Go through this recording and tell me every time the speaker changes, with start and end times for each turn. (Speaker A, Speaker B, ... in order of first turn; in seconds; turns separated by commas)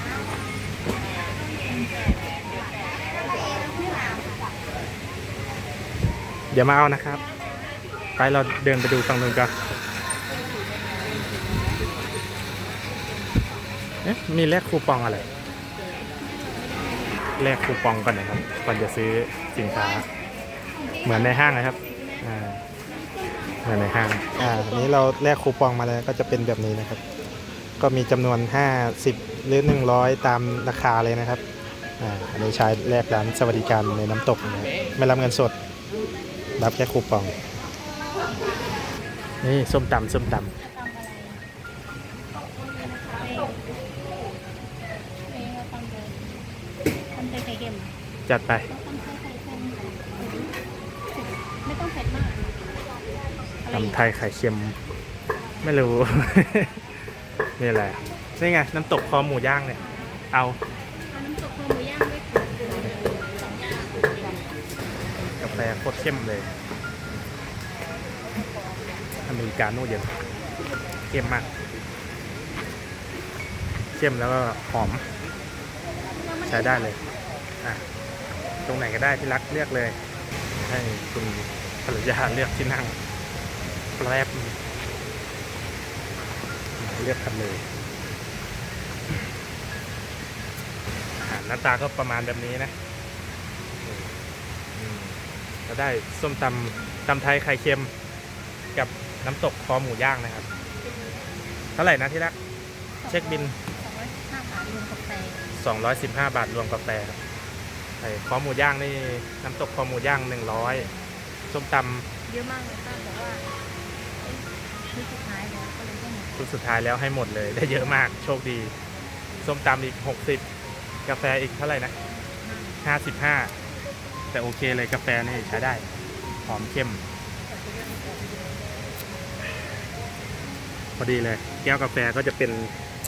Speaker A: 3.5-4.0, Speaker B: 6.5-7.2, Speaker B: 8.2-9.5, Speaker A: 10.9-11.7, Speaker B: 14.0-15.3, Speaker A: 16.1-17.4, Speaker B: 17.4-20.1, Speaker A: 20.7-22.1, Speaker B: 21.0-22.6, Speaker A: 22.9-25.0, Speaker B: 23.6-27.0, Speaker B: 27.8-31.4, Speaker B: 32.0-35.5, Speaker A: 35.9-36.5, Speaker B: 36.6-37.4, Speaker B: 39.4-40.5, Speaker A: 40.5-41.4, Speaker A: 43.1-43.6, Speaker A: 45.3-46.2, Speaker A: 47.1-48.0, Speaker B: 48.3-48.7, Speaker A: 48.7-50.5, Speaker A: 51.1-52.5, Speaker A: 53.6-54.0, Speaker B: 53.7-54.8, Speaker B: 55.6-56.8, Speaker B: 57.6-60.6, Speaker A: 59.8-60.2, Speaker A: 61.0-64.5, Speaker B: 65.4-66.5, Speaker B: 69.2-70.2, Speaker B: 71.1-71.5, Speaker B: 73.9-75.0, Speaker A: 76.1-77.0, Speaker B: 76.5-77.0, Speaker B: 78.6-80.0, Speaker B: 80.6-83.0, Speaker B: 84.0-84.6, Speaker B: 86.8-87.7, Speaker B: 91.2-92.7, Speaker B: 93.8-97.9, Speaker B: 98.8-100.5, Speaker B: 101.8-102.3, Speaker A: 103.0-105.5, Speaker B: 103.1-103.6, Speaker B: 105.5-107.2, Speaker B: 108.0-110.9, Speaker A: 110.5-111.3, Speaker B: 111.5-112.1, Speaker A: 112.3-113.5, Speaker A: 114.2-116.3, Speaker B: 116.4-118.7, Speaker B: 119.4-120.5, Speaker B: 121.1-121.9, Speaker A: 122.2-122.8, Speaker B: 122.8-123.5, Speaker B: 124.3-125.8, Speaker B: 126.5-127.0, Speaker A: 127.6-128.3, Speaker B: 131.0-132.7